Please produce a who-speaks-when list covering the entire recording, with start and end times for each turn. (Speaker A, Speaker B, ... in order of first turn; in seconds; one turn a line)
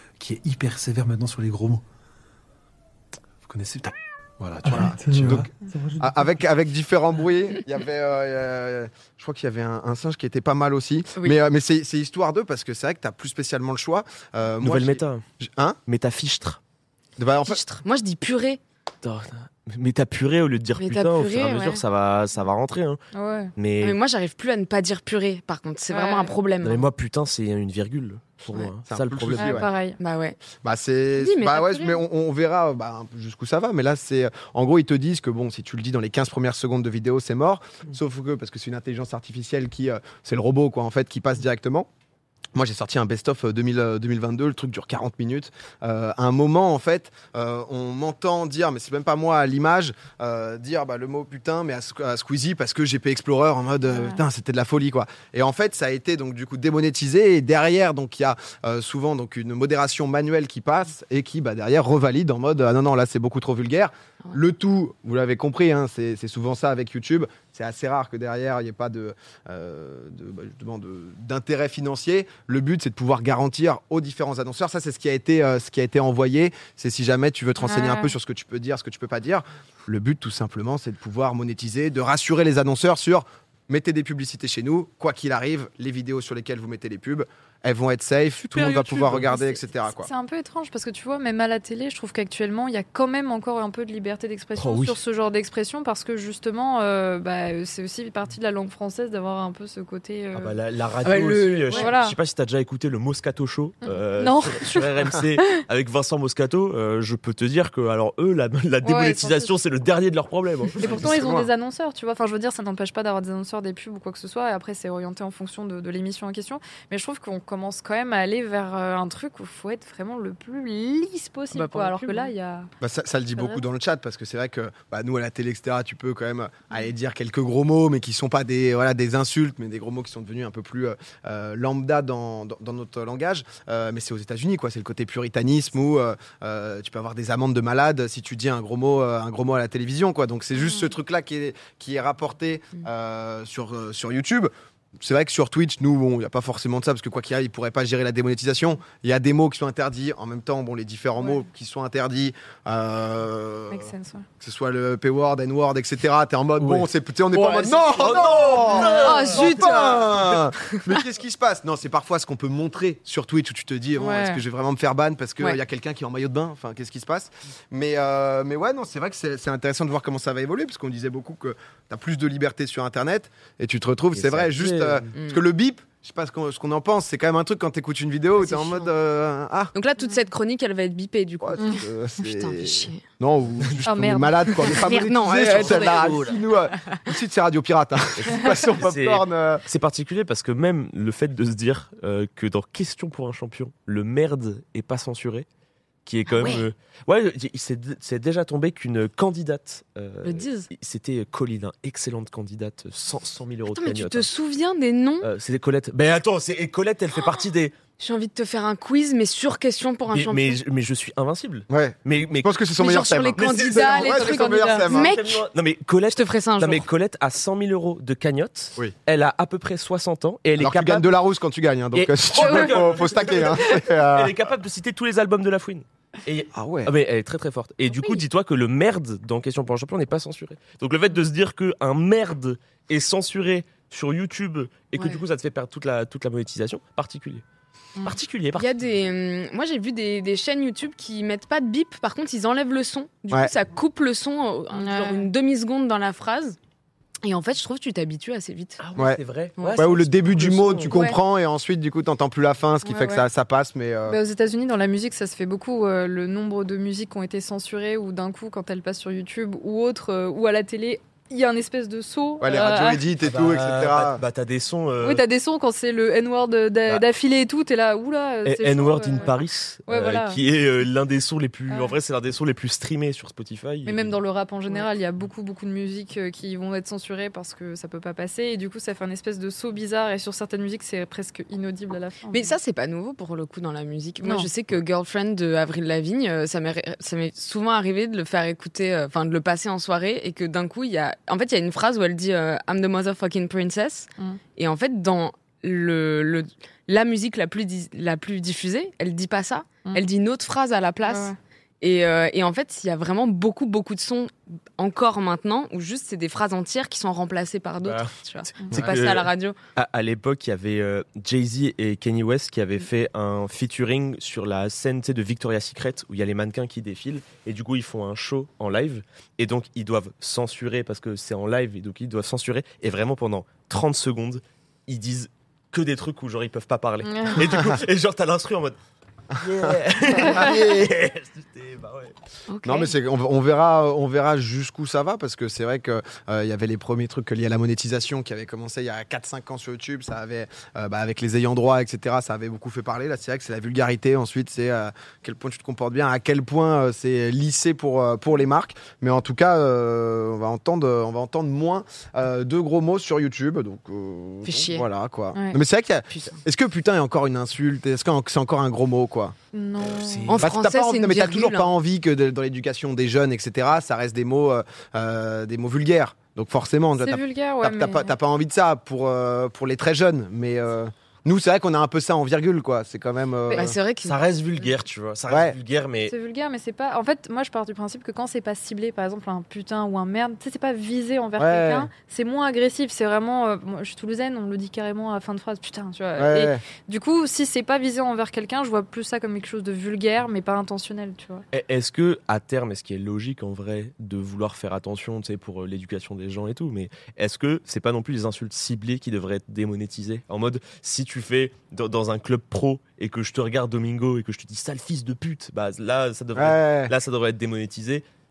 Speaker A: 0.2-1.8
Speaker A: 3.4-6.2
Speaker B: 4.6-5.1
Speaker B: 6.0-15.8
Speaker C: 14.6-15.2
Speaker C: 15.9-16.6
Speaker B: 17.2-17.6
Speaker D: 17.4-18.6
Speaker C: 19.0-23.0
Speaker D: 20.8-21.8
Speaker E: 23.1-23.5
Speaker C: 23.6-24.0
Speaker D: 23.8-26.9
Speaker E: 25.9-26.3
Speaker C: 26.6-29.6
Speaker B: 28.9-29.7
Speaker E: 29.4-30.0
Speaker D: 30.0-30.4
Speaker B: 30.6-41.9
Speaker D: 31.2-32.0
Speaker B: 42.5-90.1
Speaker E: 77.6-78.1
Speaker C: 88.5-89.3
Speaker E: 89.3-100.6
Speaker C: 94.6-95.0
Speaker C: 100.3-111.1
Speaker D: 101.0-101.9
Speaker E: 101.7-102.2
Speaker E: 104.2-104.9
Speaker E: 108.8-109.5
Speaker B: 110.8-111.5
Speaker E: 110.8-122.7
Speaker D: 121.5-122.3
Speaker B: 122.8-179.7
Speaker E: 123.3-123.6
Speaker E: 153.7-154.2
Speaker C: 156.6-159.7
Speaker D: 159.0-160.1
Speaker E: 164.0-164.4
Speaker C: 174.1-175.1
Speaker D: 175.1-175.4
Speaker D: 178.4-178.9
Speaker D: 179.7-183.0
Speaker B: 181.4-189.6
Speaker E: 183.8-184.7
Speaker D: 184.6-186.5
Speaker C: 185.5-185.9
Speaker C: 188.2-195.5
Speaker C: 196.1-204.3
Speaker D: 196.3-196.6
Speaker D: 200.2-200.7
Speaker D: 203.7-205.3
Speaker C: 205.2-207.7
Speaker D: 208.0-210.6
Speaker C: 210.1-212.6
Speaker B: 211.7-215.1
Speaker D: 212.8-215.4
Speaker C: 213.3-221.1
Speaker E: 214.2-214.7
Speaker D: 216.1-216.8
Speaker B: 220.6-224.3
Speaker C: 221.9-237.4
Speaker E: 222.4-222.7
Speaker B: 226.5-226.9
Speaker D: 235.0-235.2
Speaker C: 238.0-238.7
Speaker D: 238.5-246.6
Speaker E: 244.7-245.2
Speaker D: 247.2-248.8
Speaker C: 248.8-251.0
Speaker D: 249.6-249.8
Speaker B: 249.8-254.2
Speaker D: 250.9-251.2
Speaker E: 252.8-253.2
Speaker E: 254.1-263.1
Speaker B: 262.4-264.2
Speaker C: 263.2-265.2
Speaker E: 265.0-269.4
Speaker C: 268.4-274.1
Speaker E: 269.9-270.4
Speaker E: 271.7-271.9
Speaker E: 273.9-282.6
Speaker D: 282.3-309.6
Speaker E: 284.2-284.5
Speaker E: 301.0-301.3
Speaker C: 307.8-328.8
Speaker E: 327.0-327.4
Speaker C: 329.3-332.1
Speaker B: 330.2-330.8
Speaker D: 332.5-332.9
Speaker B: 332.6-359.4
Speaker D: 354.4-354.9
Speaker E: 355.3-355.6
Speaker D: 356.1-356.4
Speaker E: 359.5-360.4
Speaker C: 359.8-360.3
Speaker D: 360.3-361.7
Speaker B: 360.4-373.8
Speaker E: 367.0-368.1
Speaker D: 373.5-374.2
Speaker C: 374.0-376.1
Speaker B: 375.3-375.6
Speaker E: 376.1-391.4
Speaker B: 381.4-381.9
Speaker B: 386.2-386.6
Speaker C: 391.5-408.0
Speaker B: 406.4-406.9